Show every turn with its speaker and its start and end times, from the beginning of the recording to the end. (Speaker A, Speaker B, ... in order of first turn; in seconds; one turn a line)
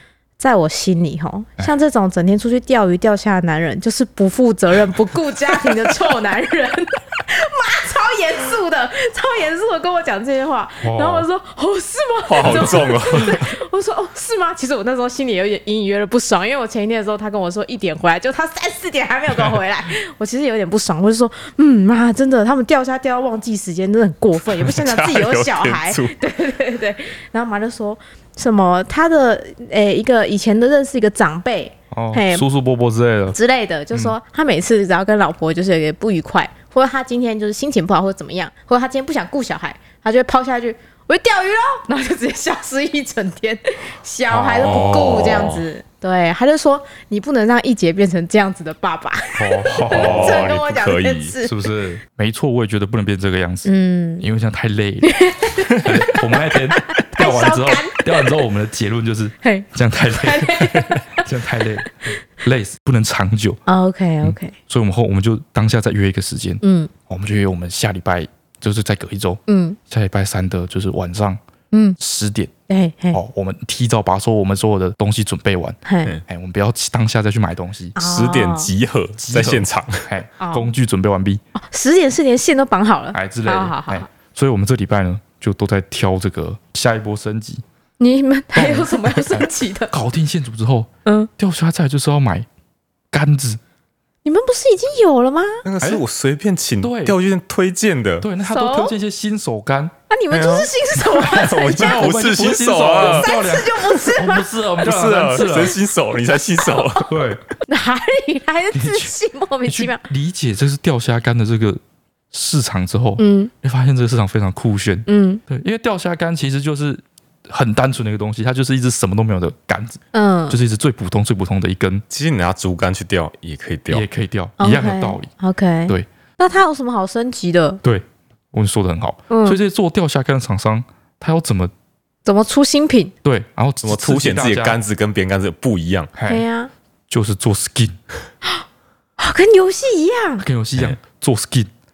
Speaker A: 0.4-32.5
Speaker B: 10.8-11.3
Speaker C: 12.3-13.4
Speaker B: 12.4-13.4
Speaker C: 24.4-26.1
Speaker B: 31.9-33.4
Speaker A: 33.3-51.5
Speaker B: 44.3-45.5
Speaker C: 44.6-45.6
Speaker B: 49.4-50.5
Speaker C: 49.9-51.3
Speaker B: 51.4-55.2
Speaker A: 53.6-54.2
Speaker A: 55.0-56.2
Speaker B: 55.8-61.9
Speaker A: 56.9-58.0
Speaker A: 59.4-61.2
Speaker B: 62.4-63.6
Speaker A: 63.7-64.5
Speaker B: 64.2-71.4
Speaker A: 66.6-66.9
Speaker A: 69.5-69.8
Speaker A: 71.7-72.0
Speaker B: 72.0-72.5
Speaker A: 72.7-73.2
Speaker B: 73.1-78.0
Speaker A: 75.8-76.1
Speaker A: 78.0-78.7
Speaker C: 78.0-80.0
Speaker B: 79.2-81.4
Speaker A: 80.4-80.7
Speaker A: 81.5-84.1
Speaker B: 83.1-87.6
Speaker A: 88.0-89.9
Speaker B: 88.5-92.5
Speaker B: 93.1-93.6
Speaker A: 94.2-95.6
Speaker C: 95.6-98.3
Speaker B: 96.8-97.2
Speaker B: 98.2-99.9
Speaker A: 98.4-98.9
Speaker A: 100.1-102.1
Speaker C: 100.3-103.3
Speaker B: 101.2-105.8
Speaker A: 103.0-104.5
Speaker C: 104.8-107.1
Speaker A: 106.6-106.9
Speaker B: 107.0-107.4
Speaker A: 107.7-110.0
Speaker B: 108.7-109.1
Speaker B: 109.6-111.8
Speaker B: 112.3-122.0
Speaker A: 113.2-113.5
Speaker A: 115.1-115.4
Speaker A: 120.1-120.6
Speaker C: 122.1-124.0
Speaker B: 123.9-125.3
Speaker A: 124.6-127.8
Speaker B: 127.8-131.7
Speaker A: 129.3-129.6
Speaker A: 132.2-133.1
Speaker B: 133.2-134.8
Speaker C: 133.8-136.1
Speaker B: 136.2-136.4
Speaker A: 136.3-136.7
Speaker B: 137.1-138.0
Speaker A: 139.2-140.4
Speaker B: 140.4-141.7